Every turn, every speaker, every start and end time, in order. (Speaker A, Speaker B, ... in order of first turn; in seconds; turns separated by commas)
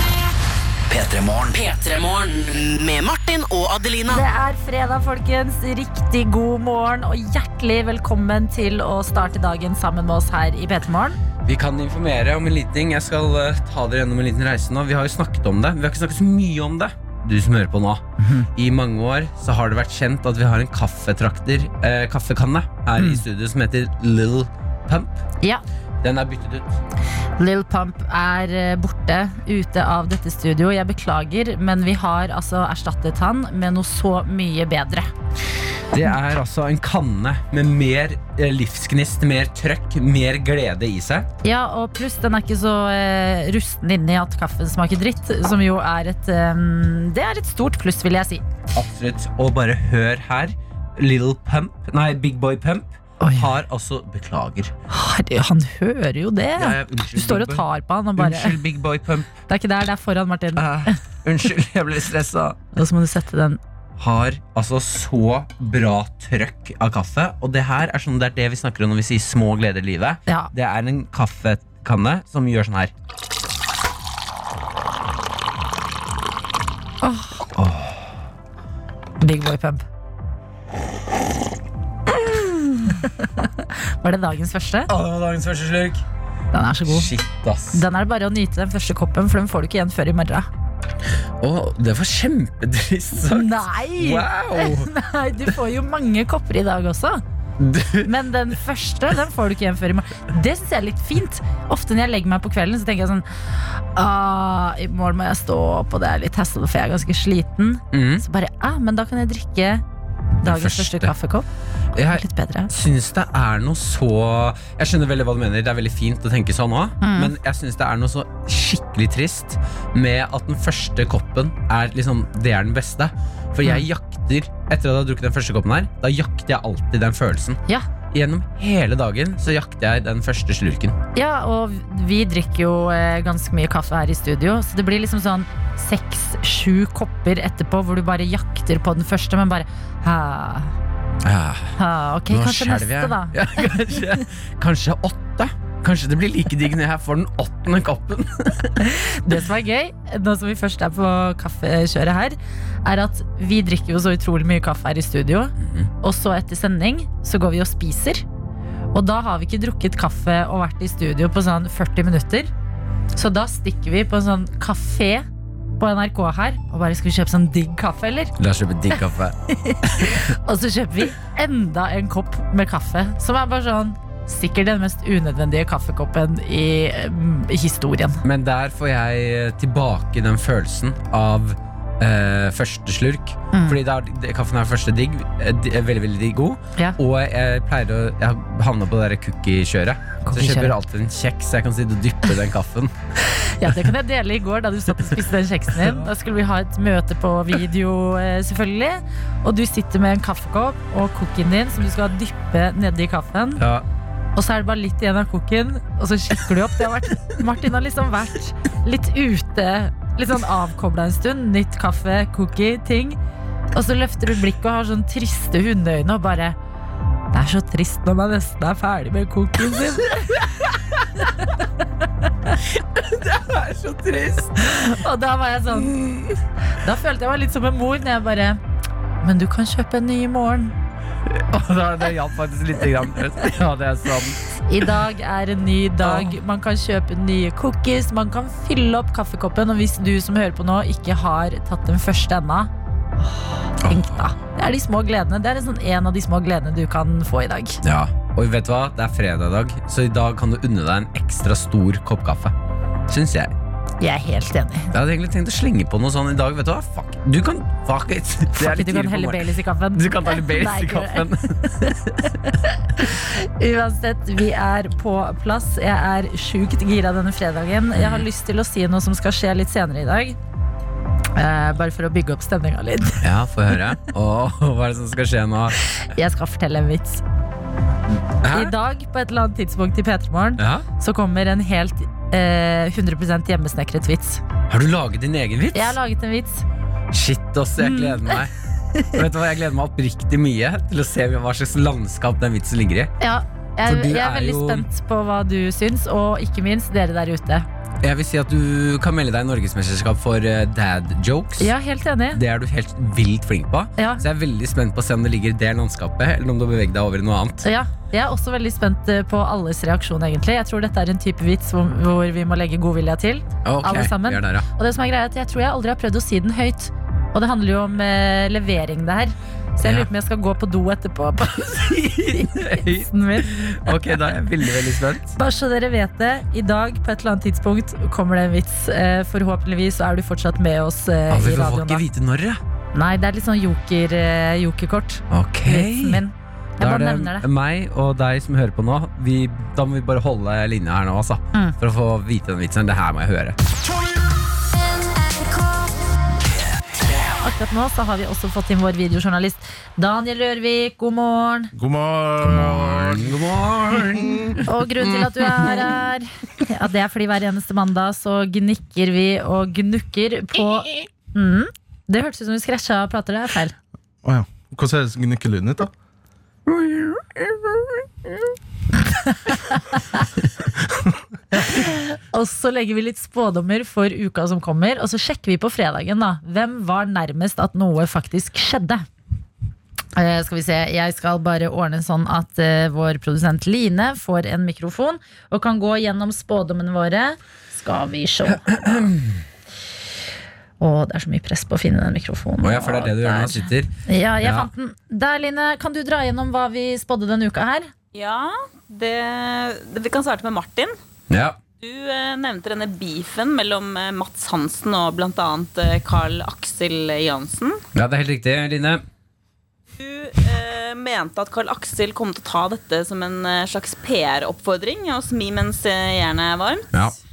Speaker A: 0.9-4.2, Speaker B: 4.1-11.2, Speaker C: 11.4-18.0, Speaker B: 18.2-18.5, Speaker C: 18.5-25.2, Speaker B: 23.0-23.2, Speaker C: 26.0-26.8, Speaker B: 27.4-35.1, Speaker C: 35.9-41.3, Speaker B: 41.4-48.4, Speaker C: 48.7-54.7, Speaker B: 53.2-53.5, Speaker B: 54.9-58.6, Speaker C: 56.6-59.3, Speaker B: 59.5-60.9, Speaker C: 60.6-62.6, Speaker B: 62.7-63.6, Speaker C: 64.0-72.9, Speaker B: 70.3-70.5, Speaker B: 77.0-77.4, Speaker C: 77.5-78.0, Speaker B: 79.2-79.8, Speaker B: 82.1-84.9, Speaker C: 84.9-86.0, Speaker B: 86.5-87.1, Speaker C: 86.9-87.8, Speaker B: 87.7-90.5, Speaker C: 91.4-94.9, Speaker B: 93.3-97.2, Speaker C: 97.6-98.1, Speaker B: 98.0-109.8, Speaker C: 107.9-108.2, Speaker C: 110.4-111.1, Speaker B: 110.4-111.5, Speaker C: 112.0-127.6, Speaker B: 112.2-112.7, Speaker B: 117.0-117.3, Speaker C: 128.1-131.0, Speaker B: 131.2-140.8, Speaker C: 141.2-141.8, Speaker B: 141.8-143.3, Speaker C: 142.3-148.8, Speaker B: 148.8-158.2, Speaker C: 155.6-155.9, Speaker B: 158.9-162.5, Speaker B: 163.1-165.3, Speaker B: 165.8-168.3, Speaker C: 168.4-170.2, Speaker B: 169.7-178.2, Speaker C: 178.2-192.9, Speaker B: 183.5-183.8, Speaker B: 190.2-190.8, Speaker B: 193.3-203.6, Speaker C: 203.6-203.8, Speaker B: 204.4-213.2, Speaker B: 213.7-216.6, Speaker B: 217.3-220.4, Speaker B: 221.3-221.6, Speaker C: 223.0-224.7, Speaker B: 224.6-226.0, Speaker C: 225.7-226.4, Speaker B: 226.8-228.6, Speaker B: 229.2-230.7, Speaker C: 231.3-234.4, Speaker B: 234.7-242.7, Speaker C: 236.0-236.3, Speaker C: 243.8-244.3, Speaker B: 243.8-247.8, Speaker C: 247.8-252.5, Speaker C: 253.1-253.5, Speaker B: 254.0-254.9, Speaker C: 254.9-262.3, Speaker B: 258.5-270.4, Speaker C: 268.0-268.3, Speaker B: 271.4-273.2, Speaker C: 273.2-275.8, Speaker B: 276.0-277.2, Speaker C: 278.4-278.7, Speaker B: 278.5-284.4, Speaker C: 280.6-280.9, Speaker C: 284.7-286.0, Speaker B: 285.7-286.6, Speaker C: 287.1-288.5, Speaker B: 287.8-288.4, Speaker C: 289.1-293.1, Speaker B: 293.2-297.7, Speaker C: 293.9-294.9, Speaker C: 298.0-301.7, Speaker B: 301.6-302.4, Speaker C: 302.3-307.6, Speaker B: 304.0-304.2, Speaker B: 307.6-324.0, Speaker C: 313.6-314.7, Speaker C: 319.8-320.1, Speaker C: 321.6-325.3, Speaker B: 325.3-332.0, Speaker C: 331.3-332.6, Speaker B: 332.9-337.5, Speaker C: 335.3-336.2, Speaker C: 336.8-343.6, Speaker B: 347.4-351.7, Speaker D: 351.7-353.4, Speaker C: 352.4-355.9, Speaker D: 354.0-354.5, Speaker B: 354.7-363.8, Speaker D: 364.2-365.9, Speaker C: 366.7-368.0, Speaker B: 369.2-370.2, Speaker B: 371.6-379.0, Speaker B: 380.2-389.1, Speaker C: 388.5-389.4, Speaker B: 390.8-397.9, Speaker C: 392.6-393.9, Speaker C: 394.4-394.7, Speaker E: 398.1-400.9, Speaker C: 401.3-401.6, Speaker E: 401.8-407.8, Speaker C: 407.9-409.0, Speaker E: 410.0-417.1